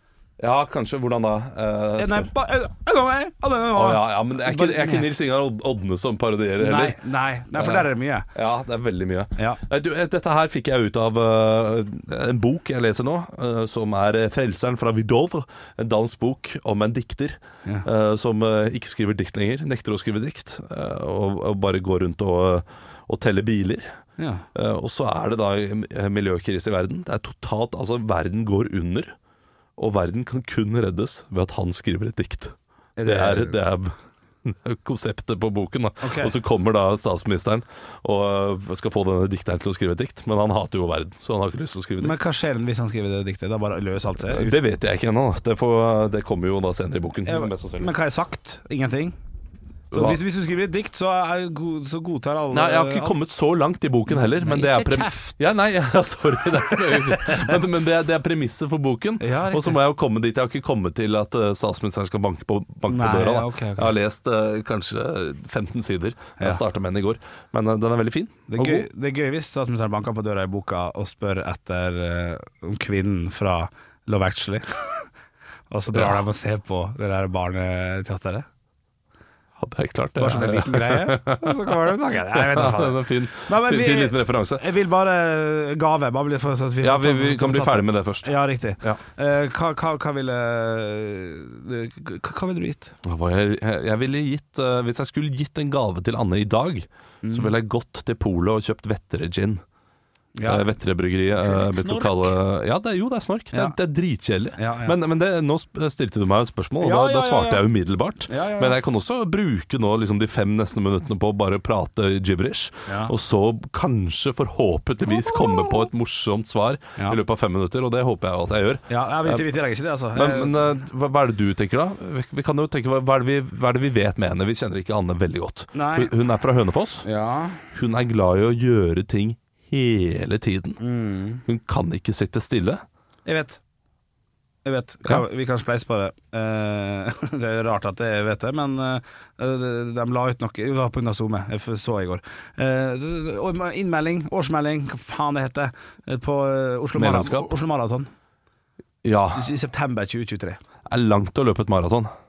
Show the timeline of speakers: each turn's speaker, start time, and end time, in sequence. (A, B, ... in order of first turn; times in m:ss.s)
0:00.4-0:02.3 A
0:02.0-0:05.1 B
0:03.7-0:07.0 A
0:06.6-0:08.3 B
0:07.5-0:23.9 A
0:24.2-0:24.4 B
0:24.6-0:29.1 A
0:29.8-0:32.5 A
0:33.0-0:33.6 B
0:33.0-0:33.9 A
0:34.4-0:42.2 A
0:36.0-0:36.3 B
0:42.0-0:44.5 B
0:44.3-0:47.9 A
0:47.2-0:49.2 B
0:49.9-0:50.2 A
0:49.9-0:53.2 B
0:52.5-1:08.9 A
0:54.1-0:55.4 B
0:56.9-0:57.6 B
0:59.2-0:59.8 B
1:02.9-1:03.9 B
1:08.5-1:15.1 B
1:15.7-1:18.5 B
1:15.9-1:16.2 A
1:19.6-1:21.8 A
1:20.2-1:32.9 B
1:22.4-1:24.6 A
1:26.8-1:29.0 A
1:33.0-1:39.6 A
1:37.2-1:37.5 B
1:40.4-1:40.7 B
1:40.5-1:59.5 A
1:41.4-1:42.3 B
1:44.6-1:45.0 B
1:46.8-1:47.7 B
1:48.3-1:48.8 B
1:52.9-1:53.1 B
1:58.9-2:00.6 B
2:00.1-2:07.1 A
2:05.8-2:06.1 B
2:07.0-2:07.6 B
2:07.7-2:10.8 A
2:10.8-2:11.4 B
2:11.5-2:12.8 A
2:13.3-2:13.6 B
2:14.6-2:28.1 B
2:27.0-2:27.5 A
2:29.0-2:29.5 A
2:29.4-2:30.6 B
2:30.9-2:32.1 A